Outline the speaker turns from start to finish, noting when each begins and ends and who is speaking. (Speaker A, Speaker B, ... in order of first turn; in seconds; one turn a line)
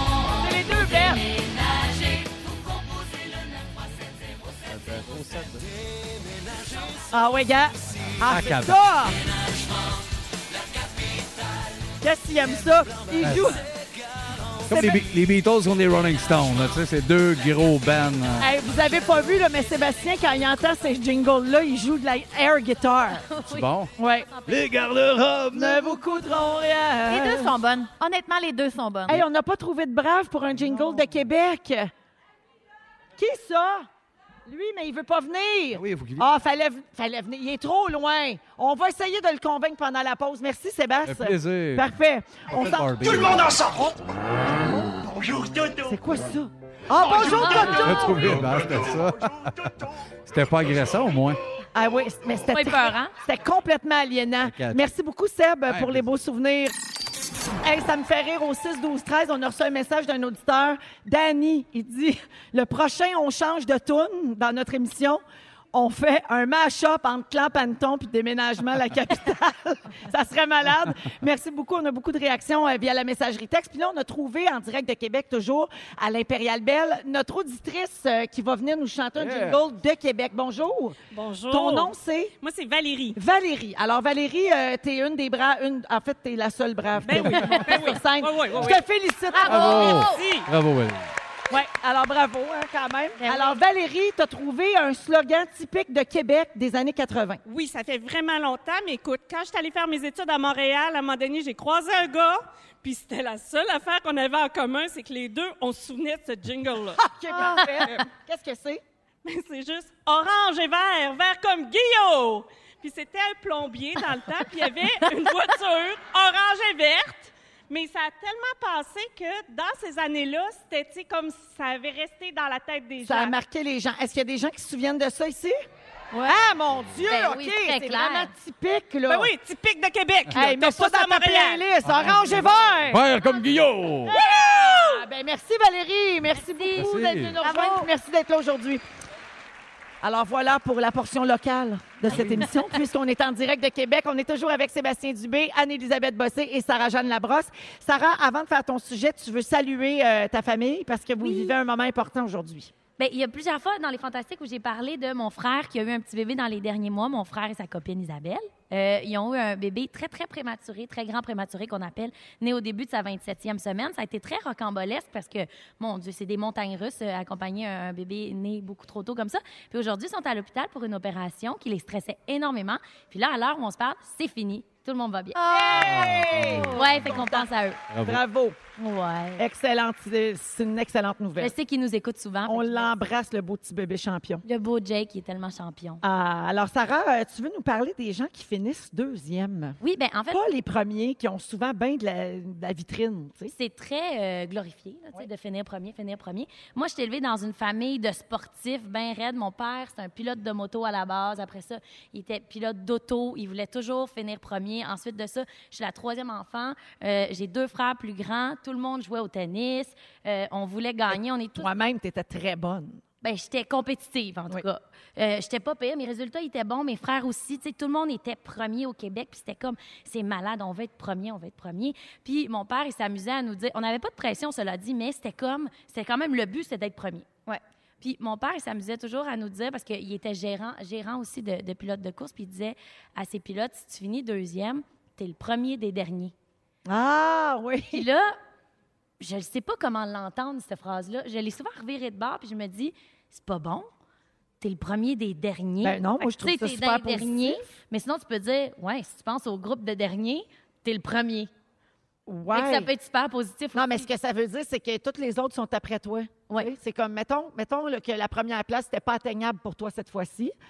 Speaker A: 0.3-1.3
Speaker B: 4.7-5.7
Speaker A: 7.1-9.2
Speaker B: 8.2-8.8
Speaker A: 12.0-13.6
Speaker B: 13.2-13.6
Speaker B: 14.7-18.5
Speaker A: 14.7-15.1
Speaker A: 18.4-23.2
Speaker C: 23.3-23.7
Speaker B: 23.5-23.9
Speaker A: 24.0-24.3
Speaker C: 24.3-24.6
Speaker B: 24.4-26.0
Speaker A: 25.5-27.6
Speaker D: 27.1-29.2
Speaker A: 29.1-31.9
Speaker B: 30.5-31.2
Speaker A: 33.2-33.9
Speaker A: 34.5-45.1
Speaker B: 35.7-36.3
Speaker B: 41.0-41.9
Speaker B: 42.5-43.6
Speaker A: 45.7-48.4
Speaker B: 47.5-49.7
Speaker B: 50.3-51.4
Speaker A: 51.8-56.8
Speaker C: 52.5-53.1
Speaker B: 54.4-54.9
Speaker B: 55.7-56.1
Speaker A: 57.6-65.2
Speaker A: 65.7-81.0
Speaker B: 79.2-79.6
Speaker E: 81.1-83.2
Speaker A: 81.5-82.3
Speaker A: 83.1-90.0
Speaker E: 87.0-88.8
Speaker B: 87.0-87.5
Speaker C: 89.3-90.2
Speaker B: 89.5-91.1
Speaker E: 90.1-90.5
Speaker A: 91.5-97.4
Speaker D: 93.2-93.6
Speaker E: 97.5-108.1
Speaker A: 107.0-108.8
Speaker E: 109.2-123.3
Speaker A: 123.0-125.5
Speaker A: 126.2-129.3
Speaker C: 127.1-128.3
Speaker E: 129.1-131.7
Speaker A: 130.3-133.0
Speaker B: 131.9-134.2
Speaker A: 134.1-138.8
Speaker C: 136.4-137.2
Speaker B: 136.7-137.4
Speaker D: 137.4-137.9
Speaker A: 140.0-152.7
Speaker B: 142.1-142.5
Speaker C: 151.2-151.5
Speaker C: 153.0-175.4
Speaker D: 175.4-176.8
Speaker A: 175.4-177.5
Speaker B: 175.8-177.1
Speaker C: 176.7-177.8
Speaker B: 177.9-178.2
Speaker A: 178.0-178.6
Speaker C: 178.8-179.4
Speaker A: 179.4-181.5
Speaker C: 181.4-182.9
Speaker A: 182.4-184.4
Speaker C: 184.4-186.0
Speaker A: 186.0-189.8
Speaker C: 189.8-190.4
Speaker A: 190.3-193.5
Speaker C: 193.5-211.7
Speaker A: 211.1-213.0
Speaker C: 213.2-227.3
Speaker C: 228.0-236.3
Speaker A: 236.9-238.1
Speaker C: 237.9-238.3
Speaker C: 239.2-243.9
Speaker C: 244.6-251.5
Speaker A: 245.8-247.7
Speaker A: 252.3-252.9
Speaker C: 252.5-254.1
Speaker A: 253.7-260.5